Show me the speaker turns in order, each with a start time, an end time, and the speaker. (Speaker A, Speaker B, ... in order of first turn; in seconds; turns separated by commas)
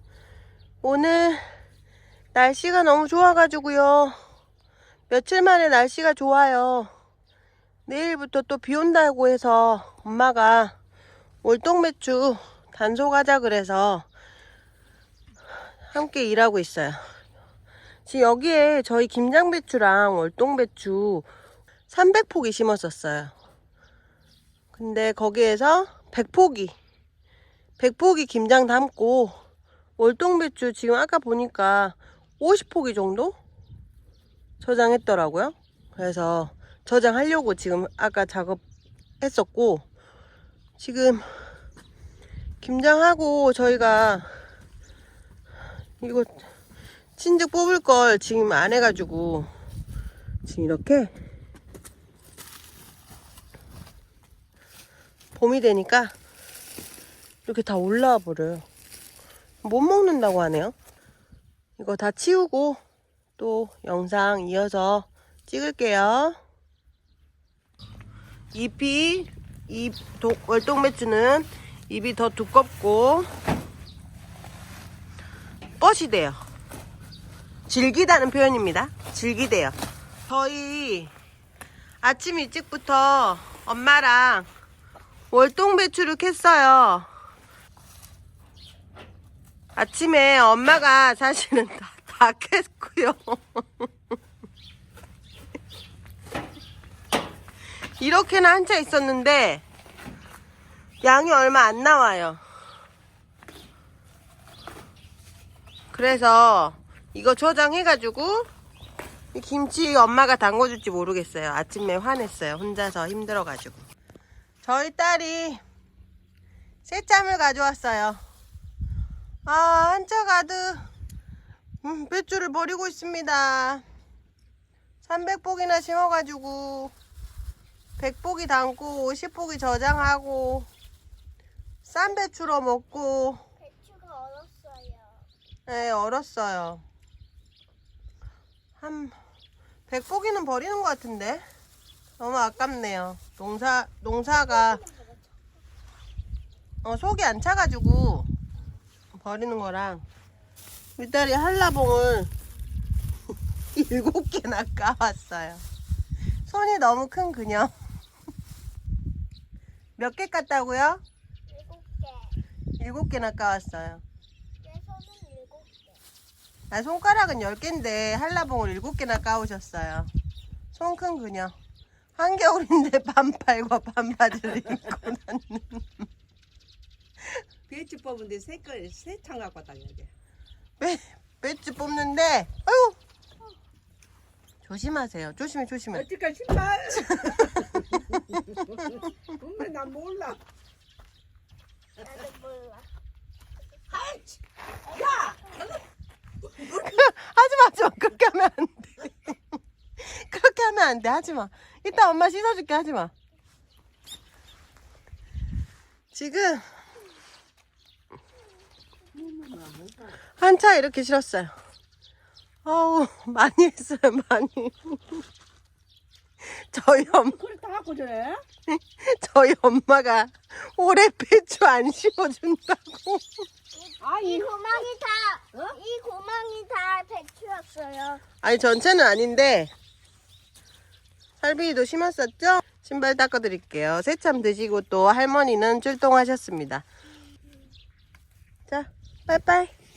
Speaker A: 0.8-1.4, Speaker A: 2.3-4.2, Speaker A: 5.1-6.9, Speaker A: 7.9-10.7, Speaker A: 11.4-14.1, Speaker A: 15.9-17.0, Speaker A: 18.1-21.3, Speaker A: 21.9-23.3, Speaker A: 24.7-26.7, Speaker A: 27.8-29.4, Speaker A: 30.0-33.4, Speaker A: 34.6-38.6, Speaker A: 39.2-39.8, Speaker A: 40.8-41.3, Speaker A: 42.6-44.3, Speaker A: 46.0-46.5, Speaker A: 47.2-49.5, Speaker A: 50.4-51.1, Speaker A: 55.3-56.1, Speaker A: 57.5-58.6, Speaker A: 59.6-60.7, Speaker A: 61.8-62.8, Speaker A: 63.4-66.4, Speaker A: 68.5-73.3, Speaker A: 75.8-76.4, Speaker A: 77.7-79.8, Speaker A: 80.3-81.1, Speaker A: 82.0-84.5, Speaker A: 85.3-87.1, Speaker A: 89.7-93.9, Speaker A: 98.0-99.6, Speaker A: 101.0-102.4, Speaker A: 105.9-108.5, Speaker A: 109.3-113.8, Speaker A: 114.6-115.6, Speaker A: 116.8-118.2, Speaker A: 119.4-120.8, Speaker A: 121.8-123.8, Speaker A: 125.0-126.9, Speaker A: 128.0-130.7, Speaker A: 131.8-133.4, Speaker B: 133.6-135.3, Speaker A: 135.7-136.8, Speaker A: 138.8-139.2, Speaker A: 139.9-141.4, Speaker A: 142.2-144.8, Speaker B: 144.7-145.2, Speaker A: 146.8-148.3, Speaker A: 149.1-150.0, Speaker A: 151.0-152.3, Speaker A: 153.7-155.6, Speaker A: 156.4-157.7, Speaker A: 160.0-161.0, Speaker B: 161.5-162.3, Speaker A: 162.8-164.0, Speaker B: 164.6-166.0, Speaker A: 166.7-170.1, Speaker A: 170.7-171.5, Speaker A: 172.2-176.1, Speaker C: 177.7-180.1, Speaker A: 180.8-183.0, Speaker A: 184.6-186.1, Speaker C: 185.9-190.4, Speaker A: 187.2-187.6, Speaker B: 192.0-192.9, Speaker C: 193.9-195.8, Speaker A: 196.6-199.4, Speaker A: 200.0-203.1, Speaker A: 206.1-206.6, Speaker C: 209.1-210.2, Speaker A: 210.4-211.5, Speaker A: 212.6-215.2, Speaker A: 216.4-217.4, Speaker C: 217.3-218.4, Speaker A: 218.7-223.4, Speaker B: 223.7-228.2, Speaker C: 224.0-224.6, Speaker A: 228.4-229.7, Speaker A: 231.4-236.8, Speaker A: 238.7-239.7